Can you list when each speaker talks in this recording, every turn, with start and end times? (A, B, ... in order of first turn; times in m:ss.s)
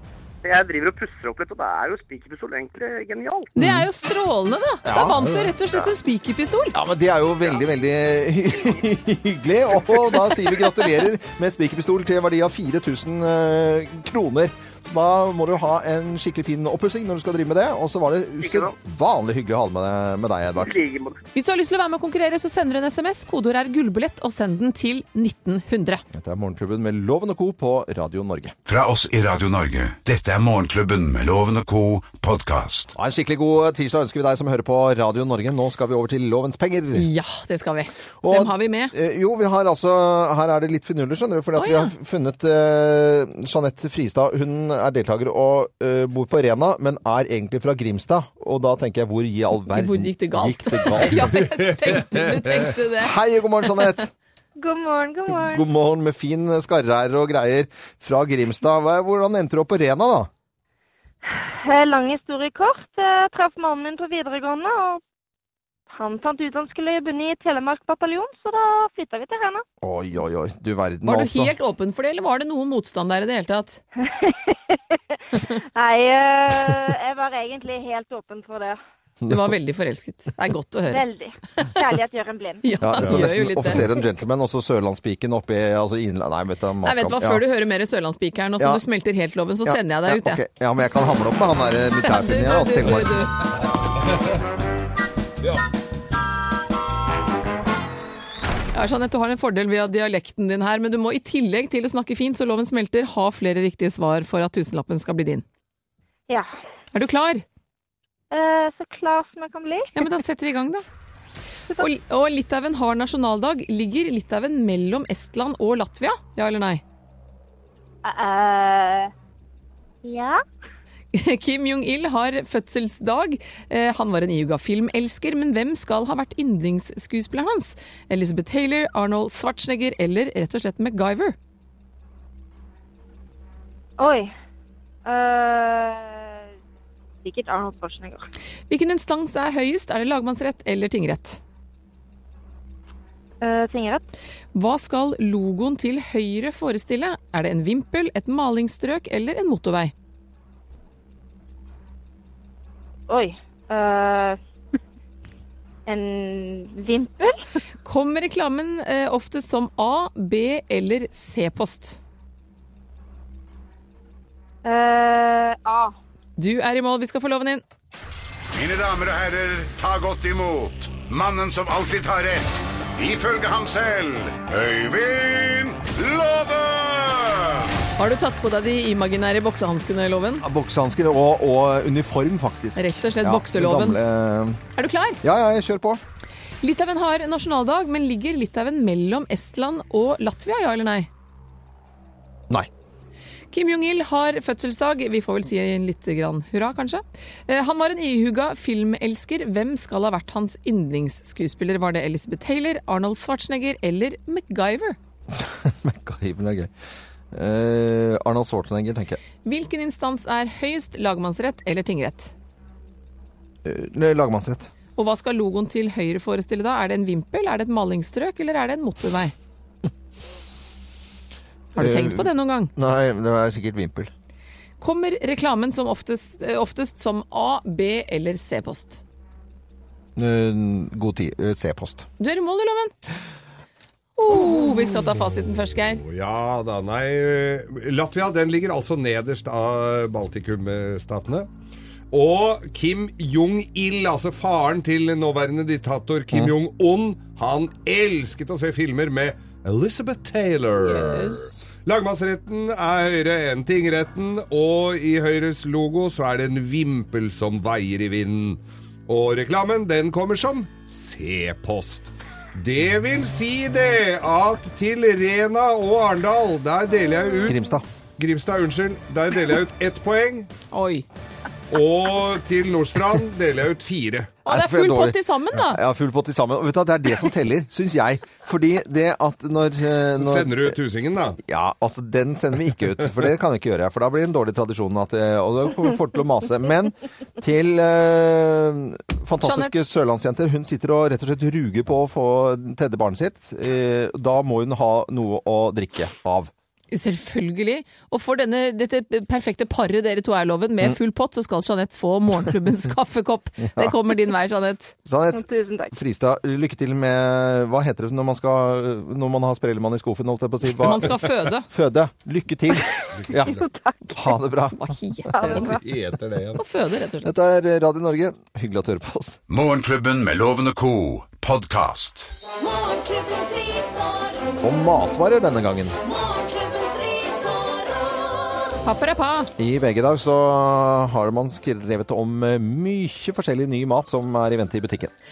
0:00.4-0:03.5 A
0:03.6-0:06.8 B
0:03.6-0:03.9 C
0:04.8-0:05.3 C
0:06.7-0:20.8 C
0:18.4-0:18.7 A
0:20.6-0:21.2 A
0:21.4-0:26.0 B
0:26.1-0:28.6 C
0:28.7-0:32.9 D
0:33.0-0:37.1 C
0:37.0-0:38.9 B
0:38.2-0:51.4 C
0:41.6-0:41.9 B
0:49.7-0:53.2 B
0:51.2-0:52.6 E
0:52.9-0:54.1 C
0:54.6-0:55.7 F
0:55.3-1:00.3 C
1:01.3-1:05.0 F
1:05.9-1:09.6 F
1:09.8-1:11.5 C
1:11.0-1:13.8 B
1:14.0-1:18.8 F
1:19.2-1:19.5 C
1:19.3-1:21.0 B
1:20.9-1:22.7 F
1:22.6-1:23.9 B
1:22.8-1:27.4 C
1:26.8-1:30.4 B
1:29.6-1:33.3 C
1:32.0-1:33.4 B
1:38.7-1:45.4 B
1:46.9-1:47.4 B
1:48.3-1:49.9 F
1:50.0-1:50.8 B
1:51.8-1:56.8 B
1:58.0-1:59.1 F
2:00.0-2:00.4 F
2:01.1-2:11.4 B
2:14.0-2:14.3 F
2:15.1-2:16.5 F
2:17.2-2:18.2 F
2:18.7-2:21.4 B
2:23.4-2:24.0 F
2:24.5-2:29.9 B
2:33.1-2:34.4 F
2:35.9-2:37.4 F
2:37.8-2:42.0 B
2:44.6-2:46.0 F
2:46.4-2:47.6 B
2:48.5-2:57.7 D
2:58.0-3:00.4 B
3:00.4-3:04.6 C
3:02.8-3:04.0 B
3:04.8-3:05.2 B
3:05.2-3:06.0 C
3:06.6-3:11.1 B
3:13.5-3:25.0 B
3:25.3-3:26.7 C
3:27.3-3:29.2 C
3:29.4-3:32.3 B
3:33.6-3:34.7 C
3:35.0-3:39.3 B
3:41.8-3:42.7 B
3:41.8-3:44.1 C
3:44.8-3:49.0 B
3:50.2-3:52.1 C
3:52.2-3:52.9 B
3:54.2-3:56.0 B
3:56.0-4:01.5 E
4:02.1-4:27.6 E
4:10.8-4:11.6 B
4:27.4-4:27.8 C
4:28.2-4:30.5 E
4:30.7-4:31.1 B
4:31.7-4:34.4 E
4:34.4-4:35.8 B
4:34.5-4:40.8 C
4:40.1-4:41.4 E
4:41.4-4:56.5 C
4:49.4-4:49.7 B
4:56.9-5:04.9 B
5:05.1-5:13.6 C
5:05.3-5:06.0 F
5:10.8-5:11.7 B
5:13.2-5:13.6 E
5:13.3-5:14.3 F
5:14.1-5:14.8 C
5:14.7-5:15.8 B
5:15.3-5:15.8 F
5:15.5-5:16.6 E
5:16.6-5:17.3 B
5:17.2-5:19.4 C
5:19.5-5:22.3 D
5:22.7-5:24.4 G
5:24.6-5:26.0 C
5:26.1-5:27.9 G
5:28.8-5:29.5 B
5:29.6-5:35.1 C